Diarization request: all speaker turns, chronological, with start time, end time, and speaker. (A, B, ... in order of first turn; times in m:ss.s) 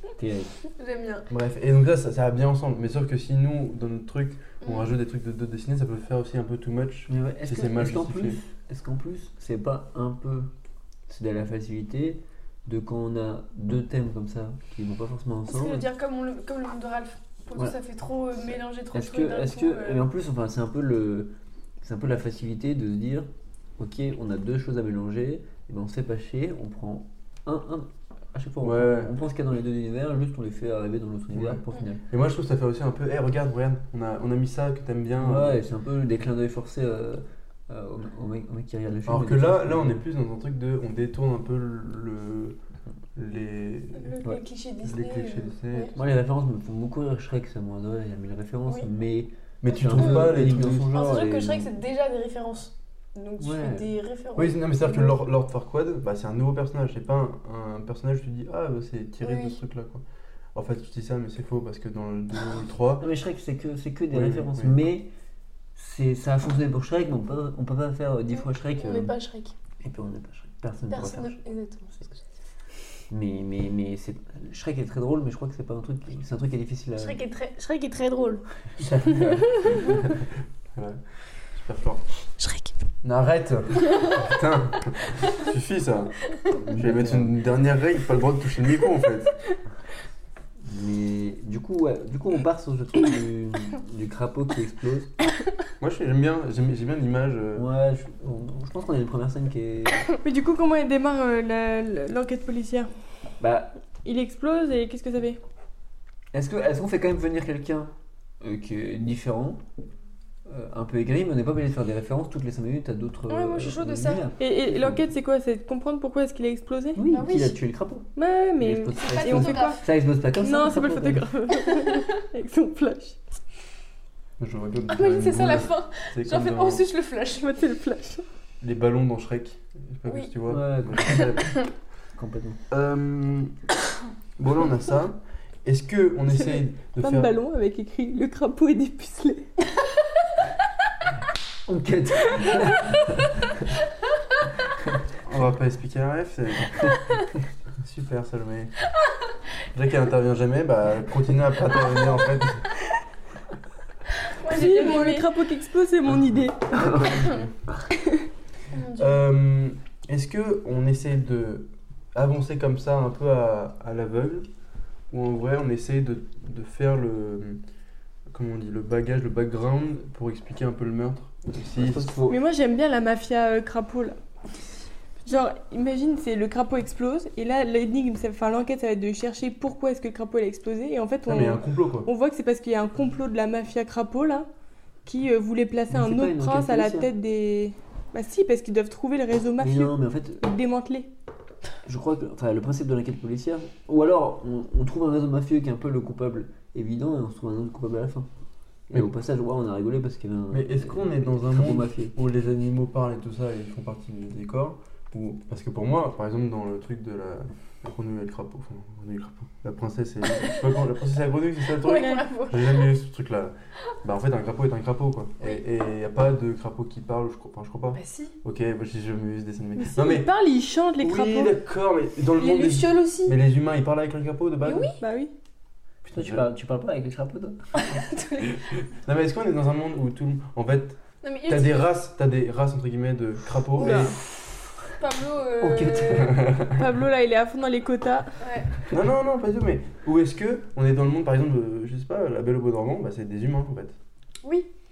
0:00.2-0:00.6 A
0:00.8-0:01.3 B
0:01.3-0:08.4 C
0:04.6-0:04.9 B
0:07.1-0:10.5 A
0:11.1-0:15.8 A
0:15.5-0:20.0 B
0:18.9-0:32.0 A
0:28.6-0:29.1 C
0:31.3-0:35.6 C
0:35.2-0:40.0 A
0:39.0-0:42.6 C
0:43.2-0:44.1 C
0:44.0-0:45.9 B
0:44.8-0:45.9 C
0:45.9-0:51.7 A
0:49.6-0:51.0 C
0:49.9-0:55.2 B
0:53.4-0:53.9 A
0:54.4-1:00.0 C
0:59.2-0:59.6 B
1:00.5-1:03.1 C
1:03.0-1:05.1 A
1:04.1-1:04.8 C
1:05.7-1:09.1 A
1:08.3-1:09.6 B
1:09.8-1:11.4 A
1:10.9-1:12.2 B
1:13.1-1:17.2 A
1:17.0-1:18.4 B
1:18.8-1:21.0 C
1:21.5-1:22.0 C
1:22.4-1:22.7 B
1:23.0-1:29.3 C
1:26.5-1:27.4 A
1:30.6-1:35.1 A
1:35.8-1:37.7 C
1:37.6-1:40.0 A
1:40.2-1:42.9 D
1:43.4-1:43.7 A
1:44.0-1:45.4 D
1:46.3-1:49.6 A
1:50.4-1:55.0 A
1:53.3-1:54.3 B
1:54.4-1:57.0 D
1:56.9-2:01.3 A
1:57.1-1:57.6 B
1:58.2-1:59.8 D
1:58.9-1:59.8 B
2:00.4-2:03.2 D
2:01.6-2:02.0 B
2:04.4-2:06.8 C
2:04.9-2:07.5 B
2:07.4-2:08.2 D
2:08.6-2:11.6 C
2:10.5-2:11.5 A
2:12.1-2:12.6 A
2:12.7-2:13.5 C
2:14.4-2:17.3 C
2:16.3-2:19.4 D
2:21.6-2:23.7 A
2:25.2-2:27.0 C
2:27.8-2:28.7 C
2:29.7-2:32.6 C
2:34.2-2:35.3 B
2:34.5-2:37.3 D
2:36.7-2:37.3 A
2:36.7-2:37.5 C
2:38.7-2:39.2 B
2:39.0-2:44.5 C
2:45.1-2:47.6 C
2:48.3-2:52.2 C
2:51.6-2:52.4 A
2:52.3-2:54.2 D
2:55.2-3:04.5 D
3:01.2-3:02.1 C
3:05.0-3:11.1 D
3:05.9-3:07.1 A
3:09.6-3:10.4 A
3:11.8-3:18.3 A
3:18.9-3:22.1 A
3:20.5-3:40.3 C
3:31.6-3:32.9 B
3:37.9-3:38.4 B
3:39.8-3:41.6 D
3:41.0-3:44.9 C
3:42.4-3:43.4 B
3:44.6-3:45.0 B
3:45.0-3:45.3 D
3:46.0-3:46.4 C
3:46.1-3:47.6 A
3:47.7-3:48.7 B
3:49.0-3:54.1 C
3:51.2-3:51.9 B
3:53.8-3:54.1 D
3:53.8-3:54.7 A
3:55.0-3:56.4 B
3:55.6-3:56.5 A
3:56.2-3:56.8 C
3:56.7-3:58.4 D
3:58.4-3:58.8 B
3:58.9-4:04.0 C
4:04.4-4:04.7 B